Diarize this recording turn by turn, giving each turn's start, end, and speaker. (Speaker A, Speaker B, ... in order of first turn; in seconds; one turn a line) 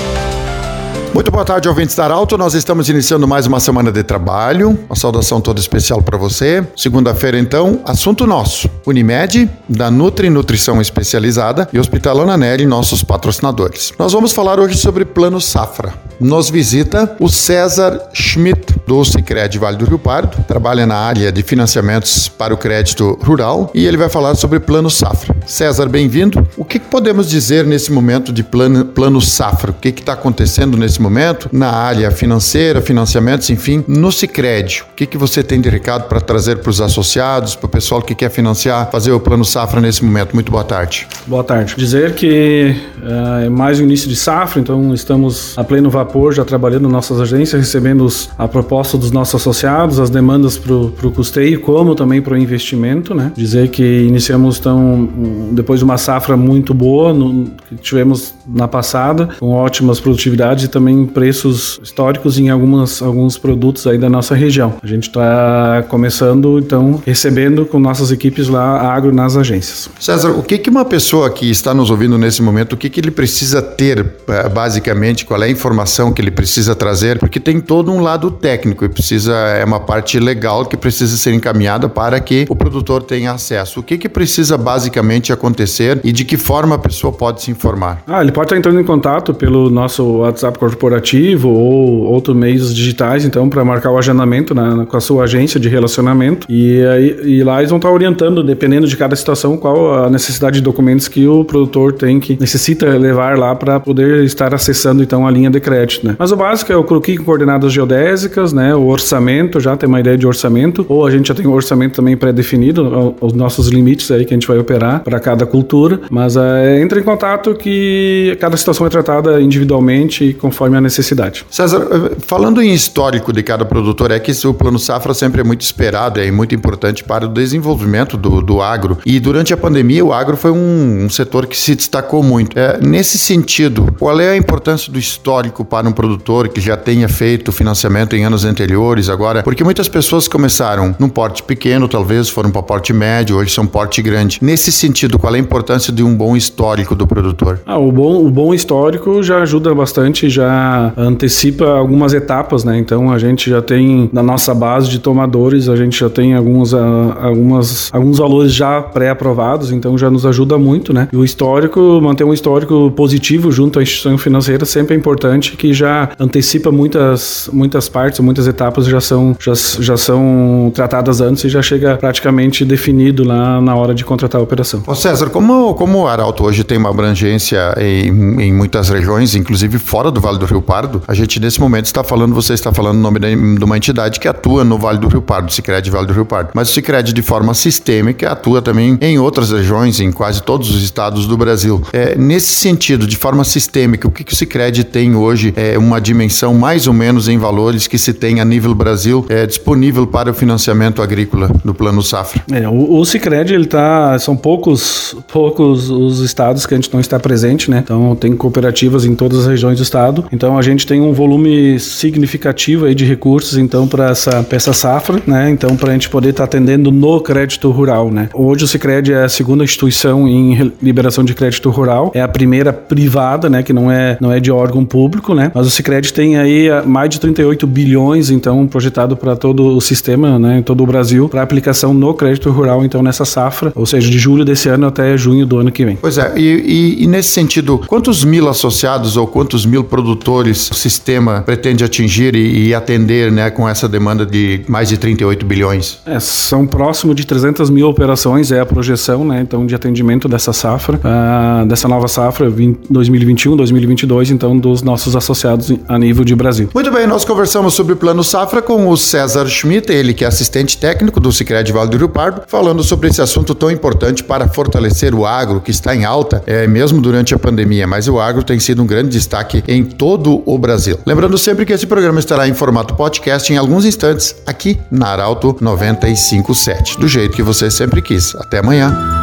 Speaker A: 1.1-41.1
Speaker B: 41.2-69.9
Speaker A: 70.0-88.0
Speaker B: 88.1-121.5
Speaker A: 121.5-147.6
Speaker B: 147.7-174.8
Speaker A: 174.9-202.4
Speaker B: 202.5-236.0
Speaker A: 236.0-246.0
Speaker B: 246.1-256.7
Speaker A: 256.7-279.0